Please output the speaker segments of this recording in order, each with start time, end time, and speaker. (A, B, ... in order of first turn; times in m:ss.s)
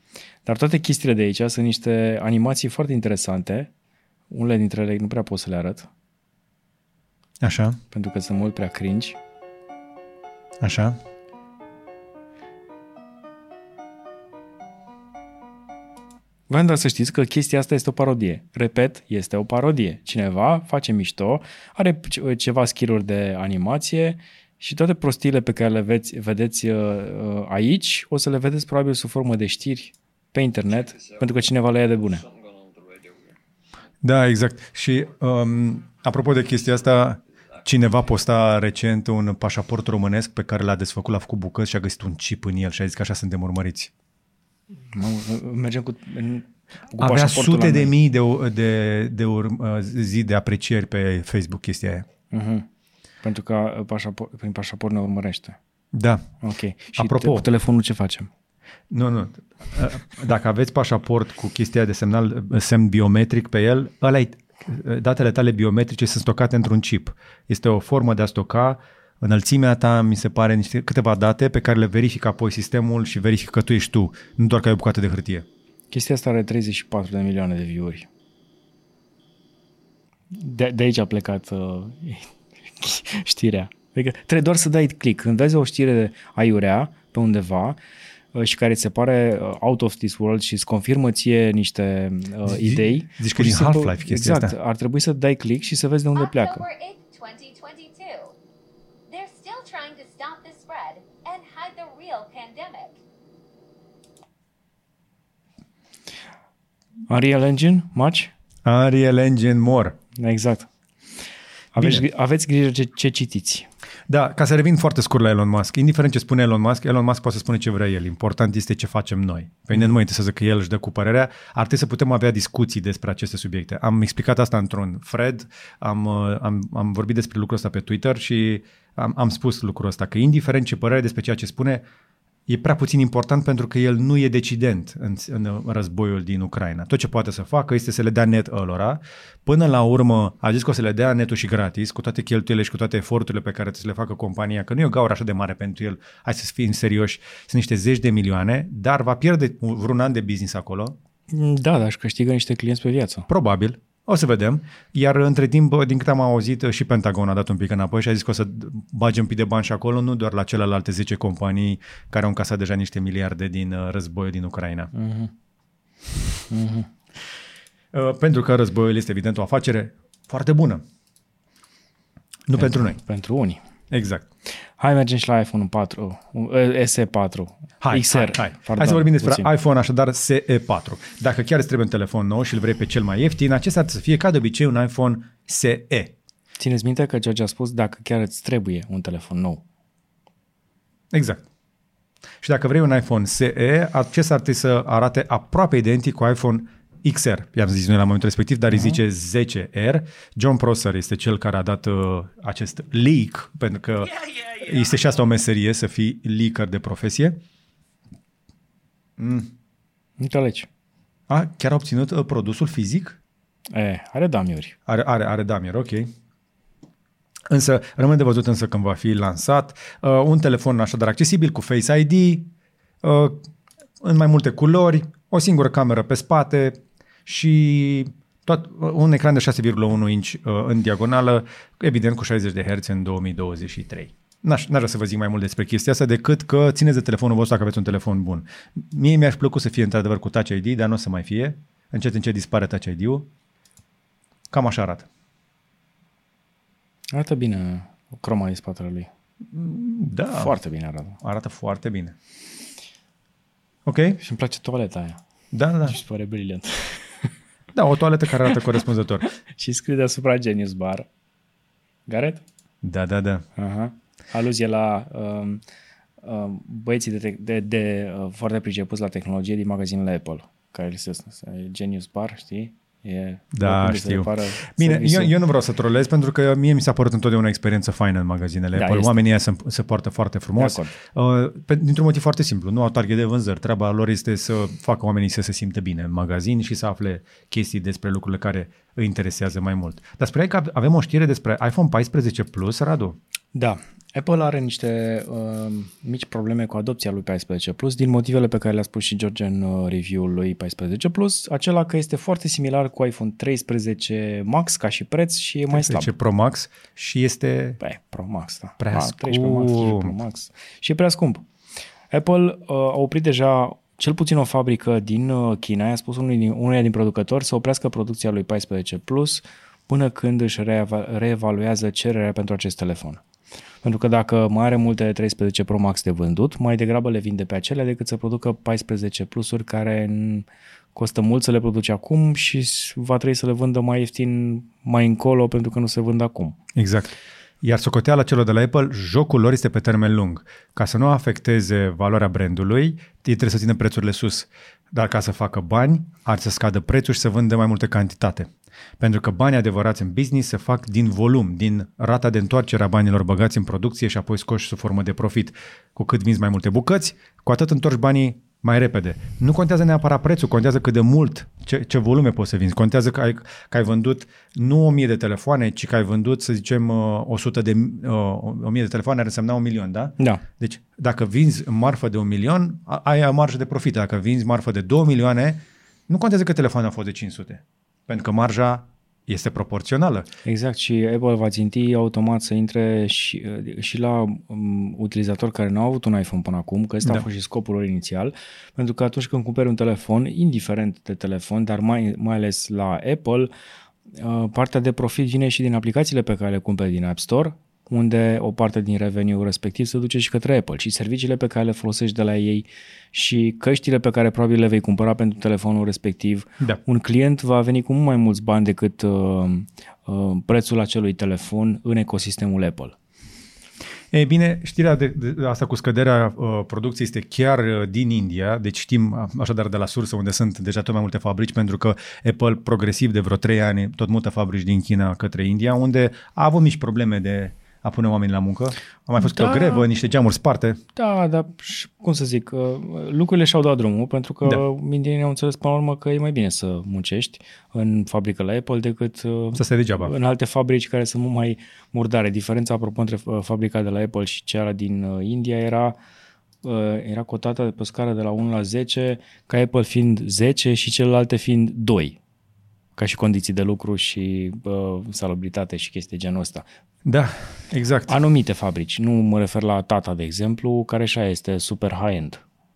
0:00.5-0:03.7 A
0:04.3-0:05.9 A
0:07.4-0:07.8 B
0:07.9-0:09.2 A
0:10.6-0:11.0 B
0:16.5-0:32.3 A
0:34.0-0:43.9 B
0:44.9-0:47.9 A
0:47.0-0:52.1 B
0:52.3-0:52.6 A
0:53.2-0:55.6 A
0:55.9-0:56.3 B
0:56.4-0:58.3 A
0:57.0-0:57.4 B
0:58.9-1:15.4 B
1:15.9-1:18.1 A
1:20.3-1:27.8 A
1:28.3-1:36.7 A
1:32.5-1:34.6 B
1:36.2-1:38.3 C
1:39.1-1:43.0 C
1:47.1-1:48.3 A
1:48.6-1:50.0 B
1:50.2-1:50.7 A
1:51.7-1:53.7 A
1:51.8-1:52.0 B
1:54.1-2:11.8 B
2:12.5-2:31.0 B
2:31.3-2:33.3 A
2:33.3-2:44.9 B
2:44.9-2:45.3 A
2:46.5-2:46.9 A
2:47.9-2:50.8 B
2:52.5-2:53.0 B
2:52.6-2:53.6 A
2:53.9-2:54.3 B
2:54.8-2:59.5 A
2:57.8-3:06.1 B
3:06.6-3:09.6 A
3:11.1-3:11.5 B
3:12.4-3:27.4 B
3:29.2-3:29.5 B
3:30.2-3:30.7 A
3:31.3-3:33.2 B
3:33.7-3:34.8 A
3:34.9-3:36.1 B
3:37.5-3:42.5 B
3:43.0-3:43.5 B
3:44.0-4:03.3 B
4:04.5-4:05.1 B
4:07.1-4:09.1 A
4:09.5-4:10.5 B
4:10.4-4:11.2 A
4:11.2-4:12.2 B
4:13.9-4:14.2 B
4:14.2-4:15.2 A
4:15.5-4:16.0 B
4:15.9-4:17.3 A
4:17.7-4:19.3 B
4:19.5-4:21.1 A
4:22.1-4:22.4 A
4:22.8-4:23.4 B
4:23.6-4:25.6 A
4:26.2-4:35.4 A
4:33.5-4:53.2 B
4:38.8-4:39.1 A
4:40.6-4:40.9 A
4:53.5-5:06.1 A
5:05.7-5:07.8 B
5:07.8-5:11.4 A
5:08.8-5:10.2 B
5:12.1-5:23.2 A
5:23.8-5:36.6 A
5:36.8-5:48.5 B
5:49.0-6:20.3 B
6:20.4-6:33.5 A
6:34.1-6:53.0 A
6:54.1-7:10.8 B
7:09.2-7:09.9 A
7:11.0-7:26.0 A
7:19.5-7:20.1 B
7:26.6-7:32.2 A
7:33.0-7:36.6 A
7:37.0-7:38.2 B
7:38.1-7:42.4 A